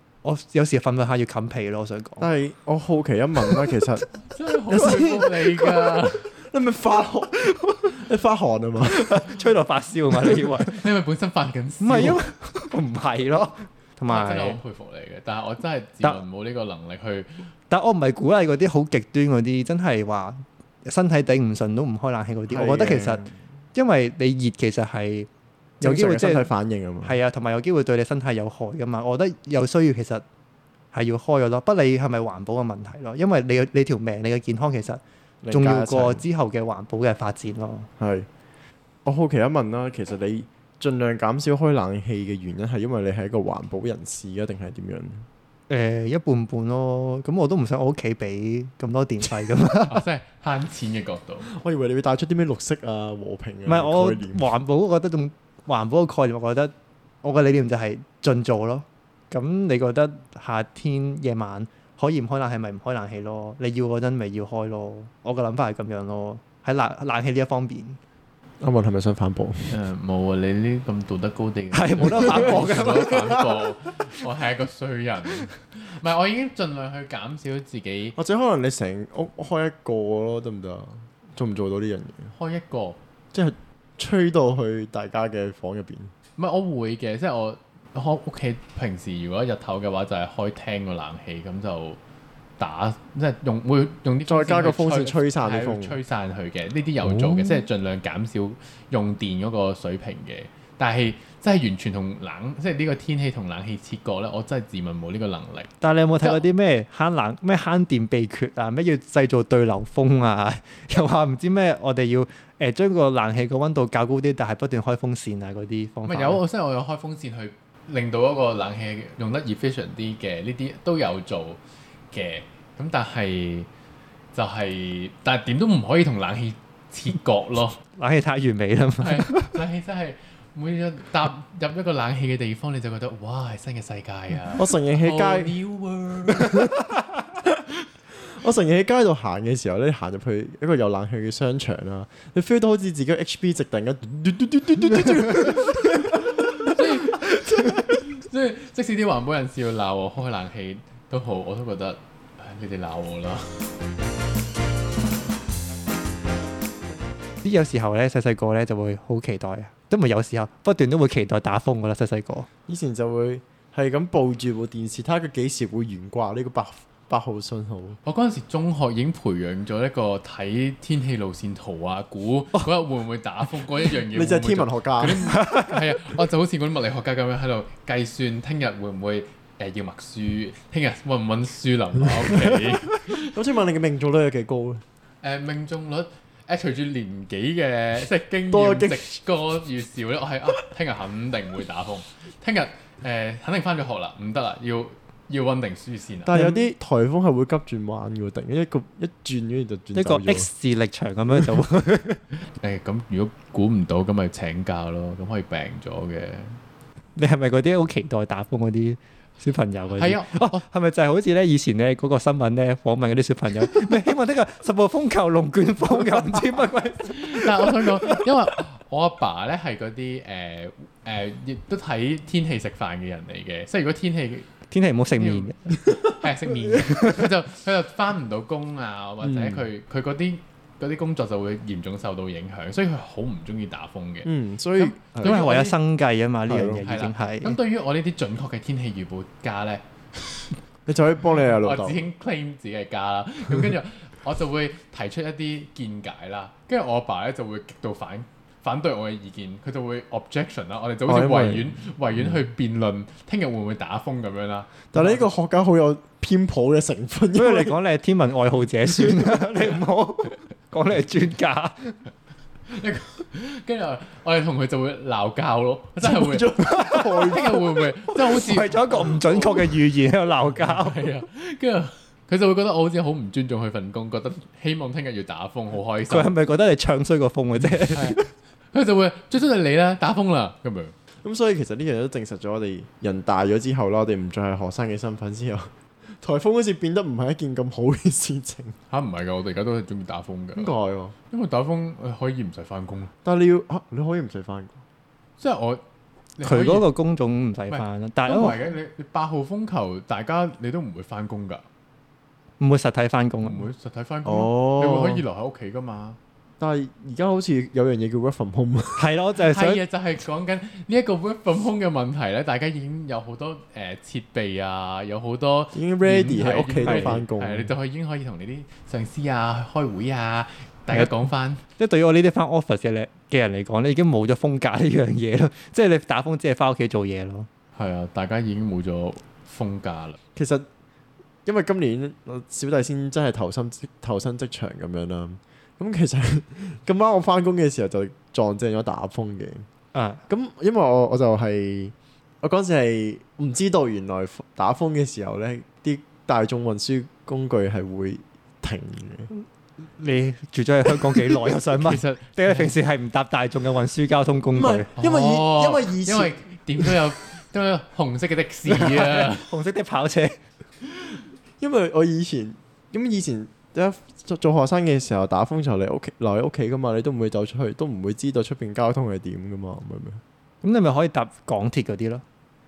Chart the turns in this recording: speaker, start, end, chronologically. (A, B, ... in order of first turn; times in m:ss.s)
0:00.2-0:02.3 A
0:02.2-0:04.1 B
0:04.3-0:06.3 C
0:04.7-0:09.4 B
0:08.9-0:10.8 A
0:10.2-0:10.5 B
0:10.7-0:12.2 C
0:11.8-0:14.6 A
0:14.1-0:17.4 C
0:17.7-0:23.2 A
0:22.5-0:23.4 B
0:23.7-0:25.3 A
0:25.8-0:26.5 A
0:25.8-0:27.2 B
0:27.0-0:30.2 A
0:30.9-0:37.9 A
0:35.4-0:36.2 B
0:38.0-0:38.3 B
0:39.0-0:45.2 B
0:45.7-0:50.0 A
0:49.8-0:51.5 C
0:51.5-0:54.4 B
0:53.6-1:08.0 A
1:08.6-1:09.7 B
1:09.7-1:18.2 C
1:11.7-1:13.4 A
1:12.1-1:13.3 B
1:18.2-1:22.3 B
1:22.3-1:23.0 C
1:23.3-1:26.1 B
1:26.4-1:32.0 C
1:32.6-1:45.7 C
1:34.2-1:36.0 B
1:45.8-1:56.4 A
1:56.0-2:01.6 C
2:02.1-2:03.7 C
2:04.3-2:07.8 C
2:08.0-2:09.6 A
2:09.0-2:16.7 C
2:14.5-2:15.6 B
2:16.3-2:16.8 B
2:18.1-2:26.7 B
2:26.2-2:33.7 C
2:37.4-2:42.5 A
2:42.7-2:48.0 B
2:48.0-3:03.3 C
2:54.1-2:55.3 B
2:55.3-2:55.8 A
3:03.2-3:04.8 B
3:05.2-3:16.6 C
3:08.5-3:09.2 B
3:16.2-3:20.5 B
3:19.9-3:22.2 A
3:22.5-3:26.6 C
3:27.2-3:38.3 A
3:29.9-3:30.6 C
3:37.0-3:44.5 C
3:44.7-3:46.0 A
3:45.1-3:55.8 C
3:46.7-3:47.3 A
3:49.2-3:49.6 B
3:54.2-3:55.4 B
3:55.2-3:57.6 A
3:56.5-3:56.8 B
3:56.8-3:59.8 C
4:00.8-4:02.0 B
4:01.6-4:15.3 C
4:11.1-4:11.8 B
4:14.9-4:17.8 B
4:17.3-4:22.0 A
4:22.7-4:29.7 C
4:26.0-4:27.9 B
4:26.6-4:27.5 A
4:28.2-4:31.0 A
4:30.5-4:36.3 C
4:36.1-4:38.3 A
4:37.9-4:40.9 C
4:41.2-4:48.8 B
4:48.9-4:50.7 C
4:50.6-4:51.1 B
4:51.3-4:53.1 C
4:53.2-4:54.8 B
4:55.4-4:55.8 C
4:56.4-4:56.9 C
4:56.4-4:58.6 A
4:57.7-5:01.6 C
5:02.6-5:03.6 A
5:03.4-5:06.2 C
5:04.2-5:05.2 B
5:06.6-5:09.0 B
5:09.0-5:09.8 A
5:09.5-5:21.6 C
5:15.7-5:17.7 B
5:16.8-5:17.2 A
5:21.8-5:27.5 A
5:27.8-5:30.2 C
5:30.4-5:30.6 B
5:31.4-5:39.6 B
5:39.9-5:40.2 A
5:40.3-5:49.3 B
5:50.0-5:54.9 A
5:51.8-5:52.7 C
5:54.5-5:57.0 B
5:55.0-5:59.5 C
5:58.7-6:00.4 A
6:01.6-6:10.2 B
6:10.6-6:12.2 A